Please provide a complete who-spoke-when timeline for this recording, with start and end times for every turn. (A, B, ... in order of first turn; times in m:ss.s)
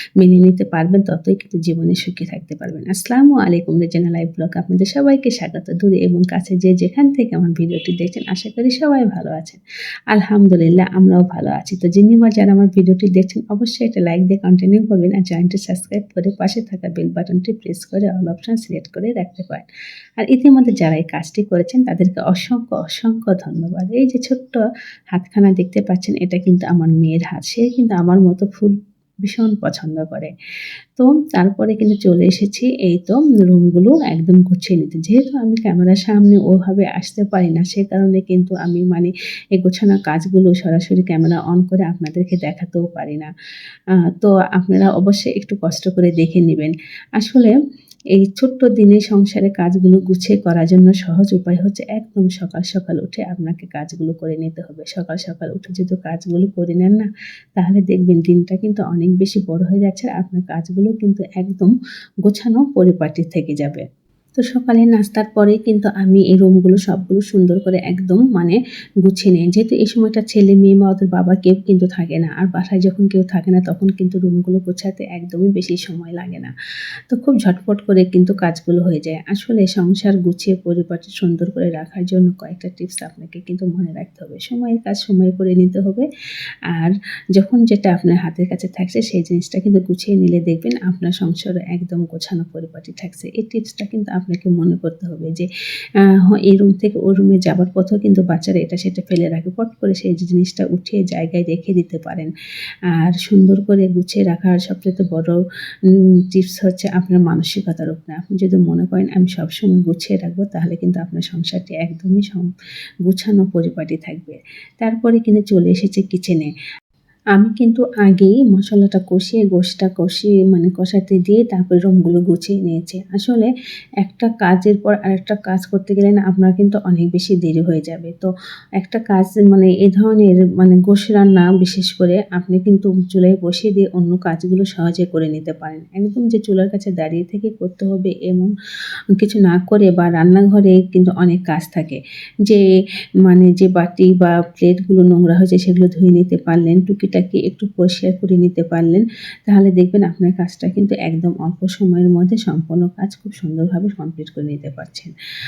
0:00.2-0:09.6 A
0:10.1-0:19.6 A
0:20.2-0:28.7 A
0:29.2-0:30.3 A
0:31.0-0:43.3 A
0:44.1-0:47.6 A
0:48.1-1:01.7 A
1:02.2-1:03.8 A
1:04.4-1:16.5 A
1:17.1-1:26.1 A
1:26.7-1:35.5 A
1:36.0-1:42.3 A
1:42.9-1:45.4 A
1:46.3-1:52.5 A
1:53.0-1:56.5 A
1:57.4-2:03.5 A
2:04.0-2:18.5 A
2:19.1-2:22.6 A
2:23.2-2:35.1 A